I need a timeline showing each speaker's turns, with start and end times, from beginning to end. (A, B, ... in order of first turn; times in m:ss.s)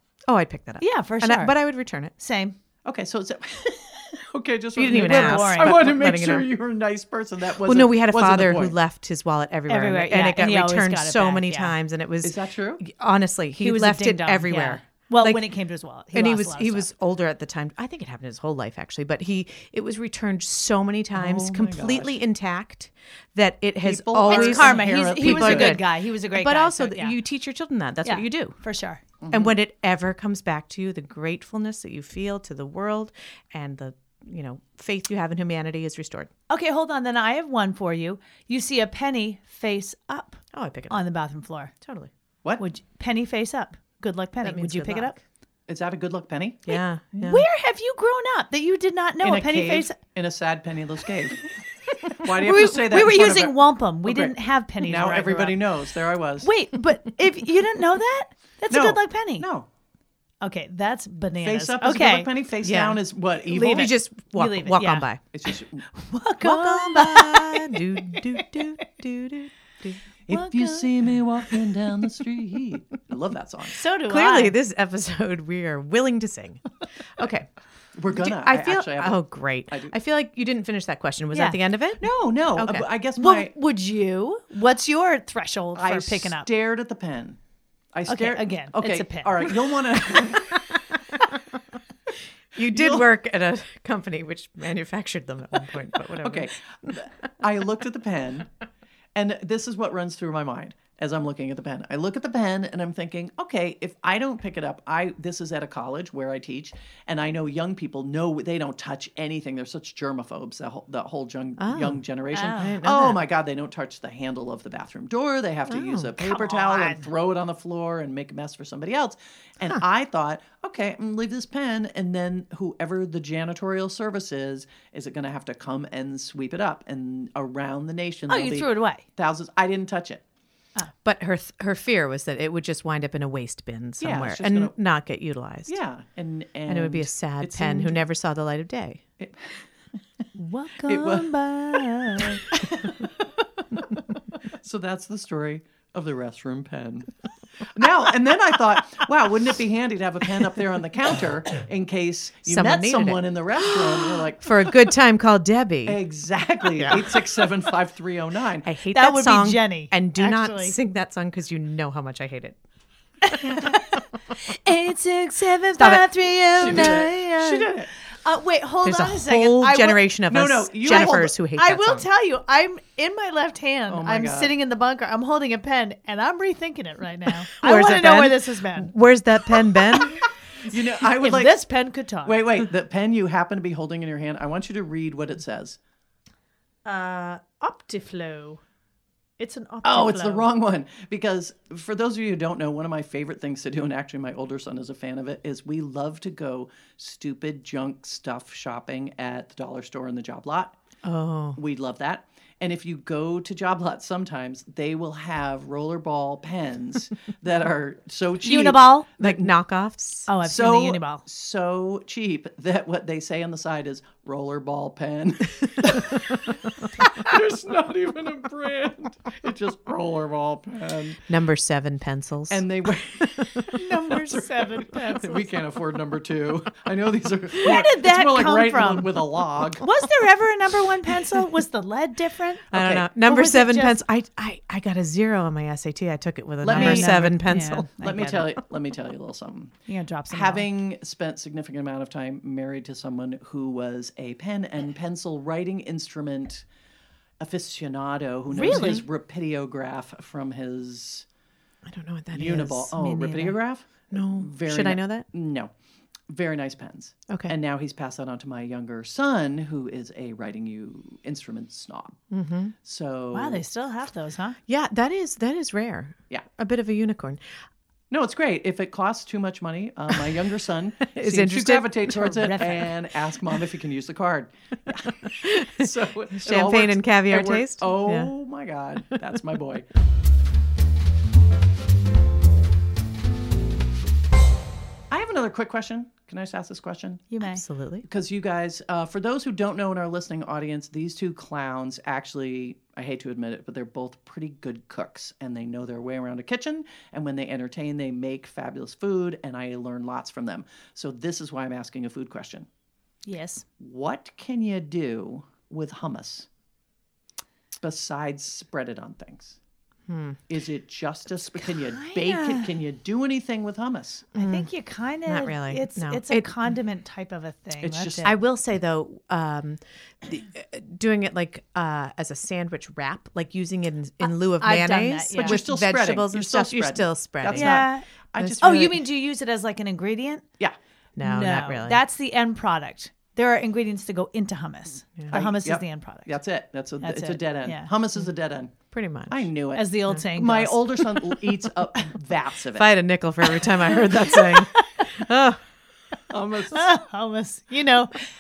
0:00.3-0:02.1 A
0:00.8-0:01.6 B
0:02.1-0:02.6 B
0:02.8-0:08.8 C
0:04.8-0:06.5 A
0:04.9-0:06.0 B
0:07.6-0:15.4 A
0:09.7-0:11.8 B
0:12.2-0:12.8 C
0:13.6-0:16.9 B
0:16.1-0:28.6 A
0:21.1-0:22.2 C
0:23.8-0:25.8 C
0:24.3-0:27.2 B
0:28.0-0:29.0 B
0:29.2-0:29.6 C
0:29.3-0:36.3 A
0:36.5-0:41.7 B
0:40.5-0:41.0 A
0:41.8-0:42.1 A
0:42.6-0:45.2 B
0:44.4-0:45.2 A
0:45.7-0:46.7 C
0:46.7-0:47.4 A
0:47.2-0:50.0 B
0:49.2-0:51.5 C
0:52.0-0:56.5 C
0:52.2-0:55.7 B
0:56.4-0:59.5 B
0:58.7-0:59.7 C
1:00.4-1:02.3 B
1:01.4-1:03.9 C
1:02.6-1:03.0 A
1:03.5-1:05.1 B
1:03.5-1:05.2 A
1:05.3-1:05.8 C
1:05.9-1:08.6 B
1:06.4-1:10.0 A
1:10.3-1:13.8 C
1:10.3-1:11.0 B
1:13.7-1:14.6 B
1:14.0-1:16.6 A
1:17.2-1:17.5 A
1:18.0-1:20.0 C
1:18.1-1:22.9 A
1:21.3-1:21.6 B
1:22.0-1:23.5 C
1:23.2-1:26.5 B
1:25.8-1:27.4 C
1:27.9-1:30.8 C
1:28.1-1:30.4 B
1:32.5-1:36.9 A
1:32.7-1:33.1 C
1:36.2-1:38.5 C
1:39.2-2:10.2 C
1:51.6-1:53.2 A
1:52.3-1:52.8 B
1:55.7-1:56.2 A
1:56.2-1:57.1 B
2:08.3-2:09.0 B
2:11.0-2:15.8 A
2:14.0-2:14.7 C
2:15.7-2:18.0 C
2:16.7-2:19.0 A
2:19.2-2:19.6 C
2:20.4-2:22.4 B
2:20.8-2:23.8 C
2:24.4-2:27.1 C
2:27.6-2:34.7 C
2:32.5-2:33.2 A
2:34.4-2:36.0 A
2:35.9-2:38.7 C
2:38.6-2:42.6 A
2:38.9-2:40.8 B
2:43.2-2:50.1 B
2:43.3-2:44.0 A
2:45.8-2:46.1 A
2:46.6-2:47.9 C
2:46.6-2:47.0 A
2:48.8-2:52.1 A
2:50.3-2:51.3 C
2:50.9-2:58.9 B
2:53.9-2:54.5 C
2:57.3-3:00.2 A
3:00.6-3:01.6 C
3:01.1-3:02.4 B
3:02.2-3:05.8 C
3:06.8-3:08.6 B
3:09.4-3:10.5 B
3:09.8-3:20.8 C
3:21.0-3:21.6 A
3:21.6-3:29.5 C
3:28.4-3:29.1 B
3:29.2-3:30.3 A
3:30.3-3:31.2 B
3:30.4-3:41.2 C
3:36.0-3:37.0 A
3:41.3-3:44.0 A
3:42.5-3:49.8 C
3:43.7-3:45.2 B
3:47.6-3:49.1 B
3:49.8-3:54.0 B
3:52.7-3:53.1 C
3:52.7-3:57.9 A
3:56.6-3:57.4 C
3:56.7-3:58.5 B
3:58.0-3:59.8 C
3:59.9-4:00.7 B
4:00.3-4:06.7 C
4:07.4-4:11.3 C
4:08.6-4:09.0 B
4:08.6-4:09.0 A
4:11.9-4:13.0 A
4:12.3-4:15.7 C
4:13.0-4:13.6 B
4:14.1-4:15.3 A
4:16.3-4:22.2 C
4:17.3-4:17.6 A
4:22.3-4:22.7 A
4:22.8-4:23.6 C
4:23.3-4:24.6 B
4:24.7-4:27.4 A
4:28.1-4:39.9 C
4:31.0-4:32.6 A
4:32.2-4:32.9 B
4:35.1-4:38.3 A
4:45.1-4:47.2 C
4:47.3-4:47.6 B
4:47.4-4:48.1 A
4:48.0-5:02.7 C
5:03.2-5:03.6 B
5:03.8-5:06.5 C
5:07.8-5:09.6 C
5:10.1-5:10.4 A
5:10.5-5:14.3 C
5:11.6-5:12.7 B
5:14.4-5:18.3 B
5:14.4-5:14.7 A
5:15.3-5:16.5 A
5:17.8-5:18.3 C
5:18.2-5:28.7 A
5:24.2-5:25.6 B
5:25.4-5:29.0 C
5:27.5-5:30.4 B
5:31.2-5:32.0 A
5:31.2-5:36.4 B
5:35.3-5:38.8 C
5:37.0-5:37.9 B
5:38.9-5:39.5 A
5:39.3-5:43.0 C
5:39.7-5:40.8 B
5:42.8-5:45.6 A
5:44.3-5:44.8 B
5:46.3-5:47.0 C
5:46.7-5:48.2 B